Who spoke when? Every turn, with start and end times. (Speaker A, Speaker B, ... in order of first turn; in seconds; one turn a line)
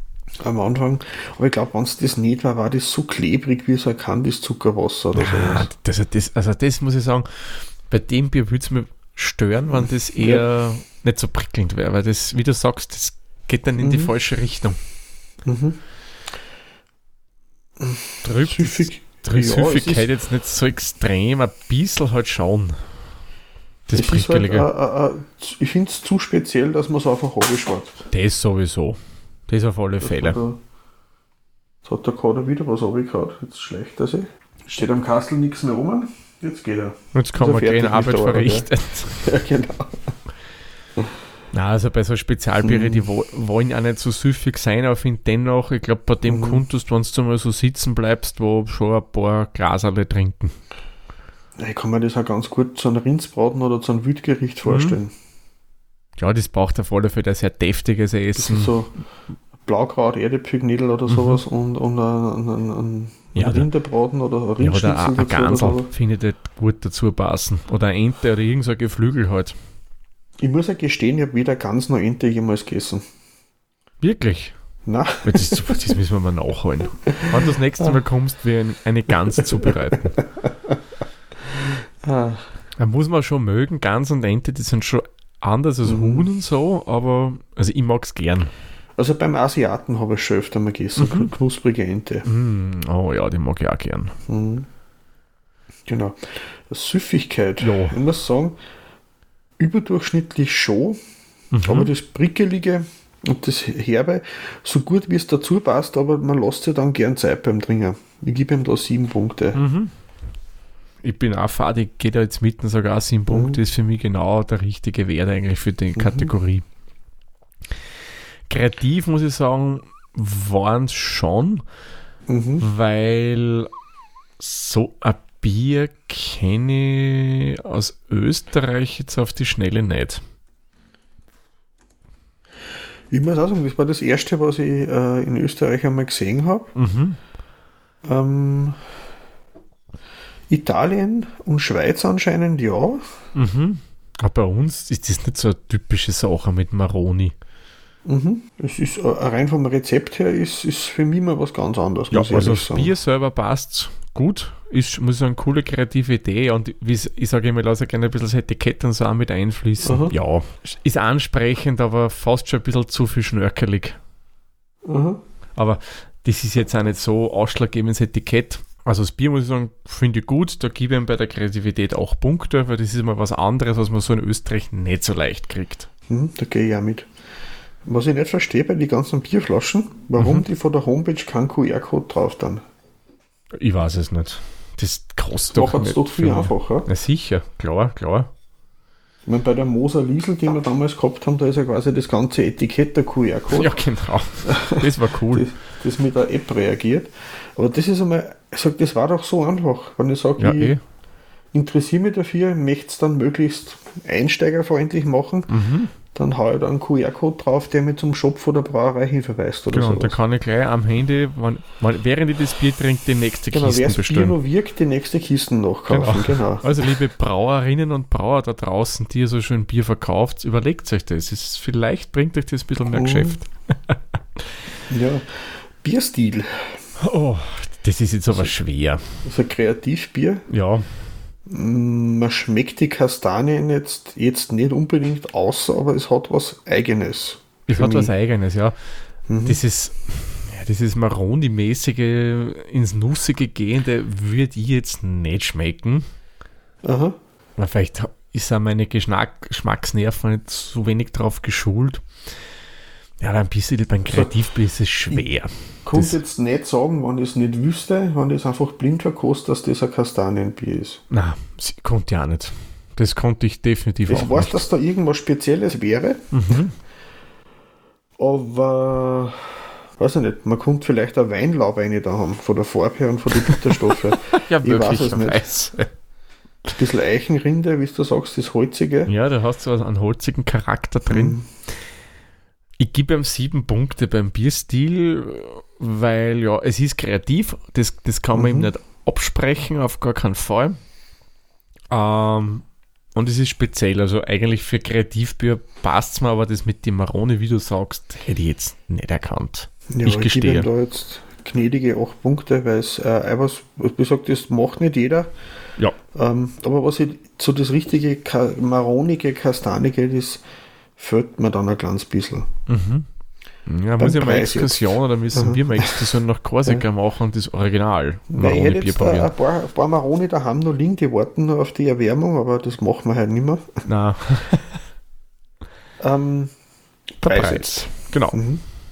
Speaker A: 0.4-5.7
Speaker B: 5.1-14.8
Speaker A: 9.7-10.4
Speaker A: 13.8-14.1
Speaker A: 15.4-15.8
Speaker A: 17.8-20.1
Speaker B: 18.2-22.9
Speaker B: 23.9-24.7
Speaker A: 23.9-28.0
Speaker B: 28.1-30.4
Speaker A: 30.0-30.6
Speaker A: 31.8-40.1
Speaker B: 37.1-39.3
Speaker B: 41.5-50.5
Speaker A: 42.6-43.1
Speaker A: 46.3-46.6
Speaker A: 51.6-55.1
Speaker B: 54.6-55.0
Speaker B: 56.2-58.7
Speaker A: 58.4-59.0
Speaker A: 59.6-65.9
Speaker B: 61.1-61.4
Speaker B: 63.3-63.7
Speaker B: 64.6-69.5
Speaker A: 70.4-73.0
Speaker B: 74.0-74.5
Speaker A: 74.8-75.8
Speaker B: 75.2-80.2
Speaker A: 79.6-80.8
Speaker A: 82.0-82.5
Speaker B: 82.8-88.5
Speaker A: 85.8-86.3
Speaker A: 89.0-92.2
Speaker B: 91.0-91.3
Speaker B: 92.2-94.1
Speaker A: 94.3-94.7
Speaker A: 95.9-98.6
Speaker B: 97.6-98.0
Speaker A: 99.6-101.0
Speaker B: 101.5-101.9
Speaker A: 101.6-109.6
Speaker B: 109.5-109.9
Speaker B: 111.0-116.7
Speaker A: 113.3-113.6
Speaker A: 116.0-116.3
Speaker B: 118.5-121.6
Speaker A: 122.3-122.7
Speaker B: 122.6-123.7
Speaker B: 124.4-130.2
Speaker A: 133.1-136.7
Speaker B: 136.7-137.2
Speaker A: 138.0-138.8
Speaker A: 140.5-143.1
Speaker B: 143.3-147.3
Speaker A: 148.0-152.9
Speaker B: 152.1-164.0
Speaker A: 159.8-160.1
Speaker A: 164.8-165.2
Speaker B: 165.6-175.9
Speaker A: 176.1-177.1
Speaker A: 177.8-182.6
Speaker B: 180.2-180.4
Speaker B: 183.5-188.3
Speaker A: 185.5-186.9
Speaker A: 189.2-193.7
Speaker B: 193.5-195.5
Speaker A: 194.5-200.7
Speaker B: 200.4-200.8
Speaker A: 201.5-205.5
Speaker B: 205.5-205.9
Speaker A: 206.1-210.2
Speaker B: 209.7-214.4
Speaker A: 213.5-216.7
Speaker B: 215.9-224.0
Speaker A: 222.9-223.4
Speaker A: 224.9-226.8
Speaker B: 227.0-229.0
Speaker A: 229.2-230.4
Speaker B: 230.5-230.9
Speaker A: 231.5-238.1
Speaker B: 237.7-238.8
Speaker A: 239.3-239.6
Speaker B: 239.4-246.1
Speaker A: 246.8-247.2
Speaker B: 247.6-252.0
Speaker B: 253.2-256.2
Speaker A: 255.8-261.0
Speaker B: 261.1-264.6
Speaker A: 264.1-266.6
Speaker B: 266.3-266.7
Speaker A: 268.2-275.4
Speaker B: 273.4-275.9
Speaker A: 276.7-279.1
Speaker B: 279.1-281.4
Speaker A: 281.1-281.4
Speaker B: 282.8-290.8
Speaker A: 288.3-288.7
Speaker B: 291.9-300.7
Speaker A: 299.9-305.3
Speaker A: 306.1-310.4
Speaker A: 311.0-312.5
Speaker B: 312.7-313.1
Speaker B: 313.6-319.3
Speaker A: 314.0-316.1
Speaker A: 318.3-323.8
Speaker B: 323.9-324.8
Speaker A: 326.0-326.5
Speaker B: 327.2-328.4
Speaker A: 327.2-328.6